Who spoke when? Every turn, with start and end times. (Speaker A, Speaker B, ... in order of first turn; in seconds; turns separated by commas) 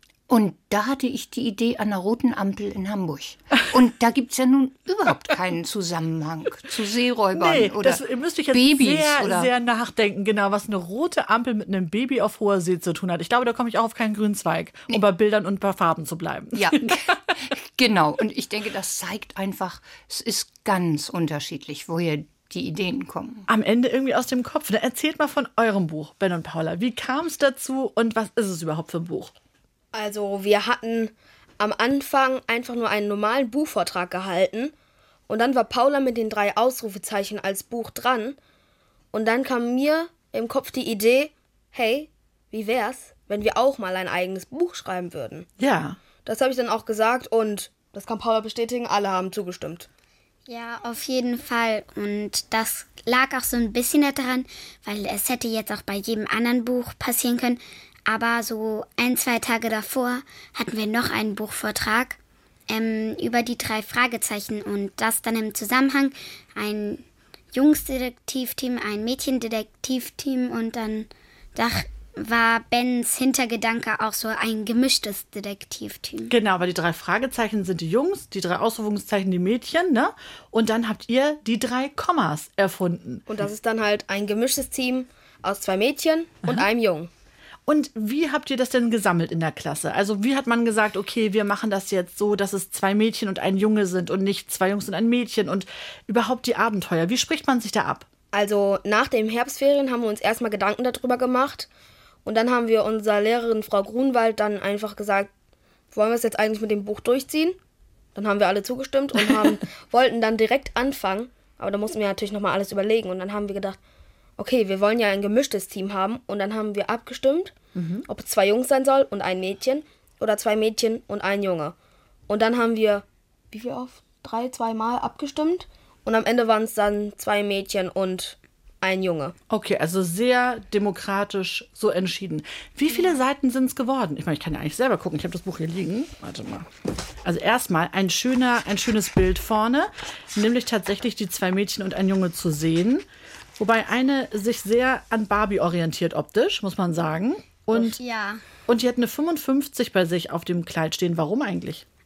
Speaker A: 0.3-9.5, Speaker B: 7.3-17.2, Speaker A: 16.5-23.4, Speaker B: 23.5-29.3, Speaker C: 29.9-34.7, Speaker C: 35.3-38.4, Speaker C: 39.1-45.5, Speaker B: 45.6-46.0, Speaker C: 46.2-49.9, Speaker D: 50.5-62.2, Speaker D: 62.7-76.3, Speaker B: 76.3-83.2, Speaker C: 83.3-87.1, Speaker B: 87.7-98.0, Speaker C: 98.3-101.7, Speaker C: 102.2-105.3, Speaker C: 105.9-107.6, Speaker C: 108.1-113.8, Speaker C: 114.4-117.5, Speaker B: 117.8-118.0, Speaker C: 118.1-121.7, Speaker C: 122.3-129.3, Speaker B: 129.5-136.7, Speaker B: 137.2-143.0, Speaker B: 143.6-148.0, Speaker D: 147.7-148.4, Speaker B: 148.7-151.8